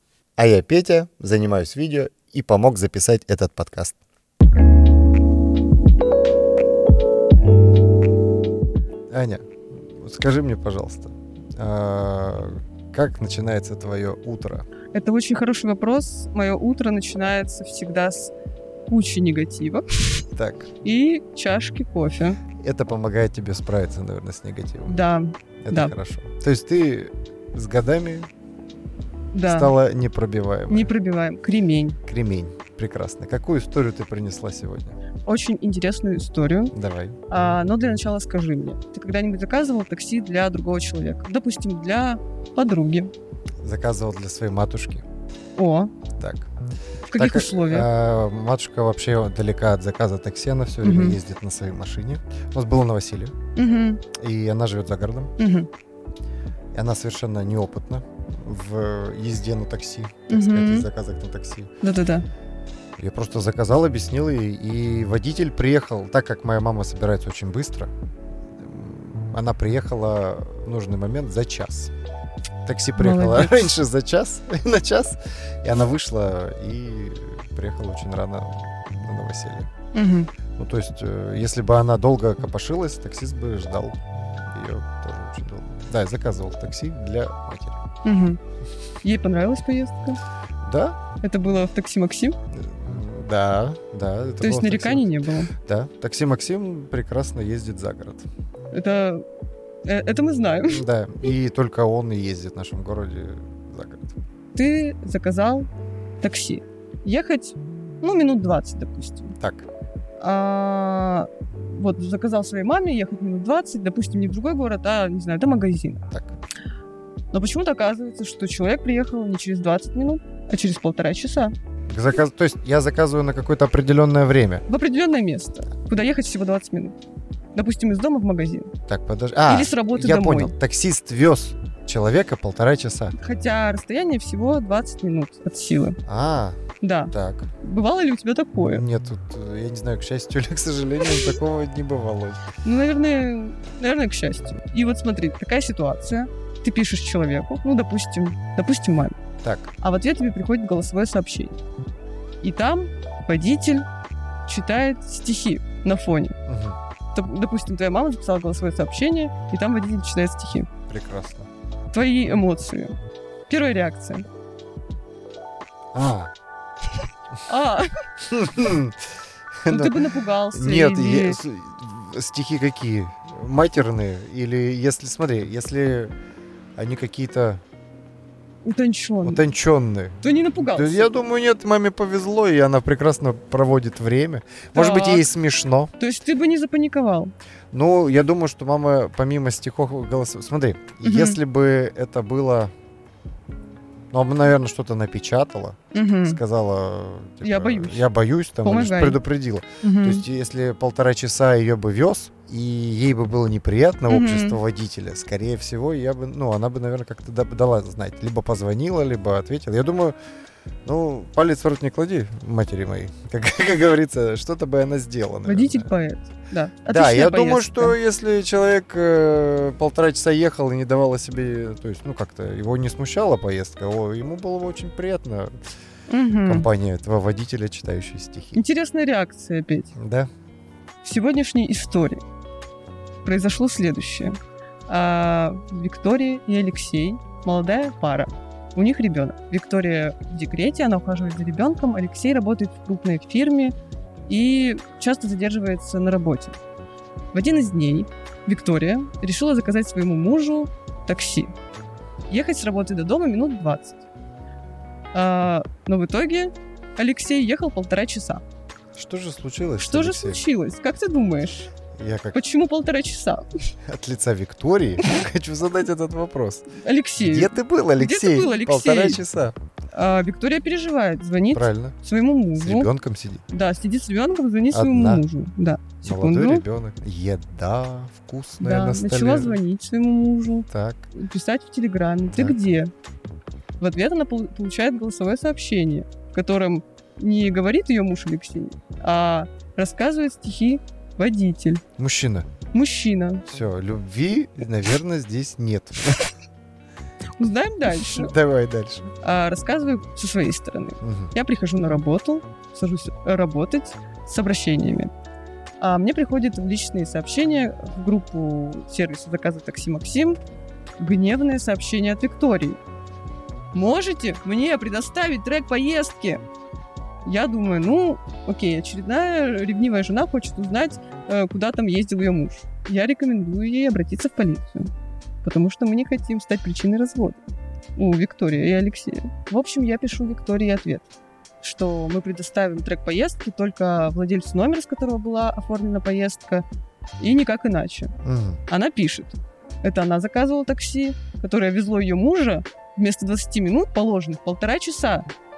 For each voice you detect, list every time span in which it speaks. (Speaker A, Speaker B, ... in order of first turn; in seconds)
Speaker A: 0.4-4.0, 9.1-14.7, 20.4-20.7, 22.6-25.0, 25.6-28.3, 29.5-30.9, 32.0-35.0, 36.7-37.2, 43.6-45.0, 46.2-46.5, 47.1-53.3, 54.1-55.3, 56.7-61.7, 63.0-67.9, 68.6-71.9, 72.6-79.7, 80.5-87.8, 90.6-91.0, 92.5-98.3, 100.7-104.2, 109.4-109.7, 116.1-116.3, 121.9-124.6, 128.9-133.1, 136.1-136.6, 137.1-137.5, 138.6-142.4, 149.4-149.7, 156.4-156.8, 160.9-161.5, 165.9-166.3, 168.2-170.0, 170.5-176.1, 176.8-177.6, 179.2-185.9, 187.7-192.7, 194.1-210.1, 210.8-215.9, 216.9-225.5, 226.4-228.6, 229.9-230.3, 258.9-260.4, 262.0-262.4, 263.9-269.6, 271.5-271.9, 272.6-273.4, 274.7-275.2, 276.0-279.6, 280.7-281.1, 292.0-292.5, 293.5-296.2, 297.9-299.1, 301.0-301.3, 338.2-338.6
Speaker B: 14.9-18.3, 18.9-20.2, 20.8-22.4, 24.9-25.9, 29.3-29.7, 30.7-32.0, 35.2-36.7, 37.3-43.1, 45.6-45.9, 47.1-47.9, 50.8-51.2, 53.5-54.0, 55.4-55.7, 60.3-60.9, 61.8-62.2, 73.0-73.5, 79.9-80.3, 88.0-88.4, 89.0-90.2, 91.2-92.4, 94.4-95.5, 98.7-99.2, 99.8-100.8, 104.5-105.7, 106.2-109.3, 110.2-116.0, 117.3-121.5, 124.7-126.9, 127.5-128.7, 129.5-130.5, 133.1-136.0, 136.8-138.8, 142.6-149.2, 149.8-151.6, 152.4-153.8, 154.5-156.3, 157.1-160.7, 161.9-162.9, 163.5-164.2, 167.4-168.0, 169.7-171.4, 178.6-179.4, 180.2-181.1, 184.7-185.2, 186.0-187.3, 191.0-191.4, 195.9-196.4, 197.4-198.0, 198.6-199.2, 199.8-200.2, 204.1-204.6, 215.4-217.9, 226.1-226.7, 228.5-229.9, 231.0-232.2, 233.2-234.4, 234.9-243.7, 244.3-246.6, 247.3-251.5, 252.3-254.0, 255.1-258.4, 259.8-261.7, 262.3-263.5, 266.8-269.2, 269.9-272.9, 273.5-276.6, 278.6-282.9, 283.8-291.8, 292.7-293.4, 297.4-298.3, 299.2-305.1, 305.8-310.4, 311.0-312.8, 313.7-316.4, 317.2-324.9, 325.4-327.4, 327.9-331.1, 331.6-336.6, 337.2-338.1, 338.7-345.2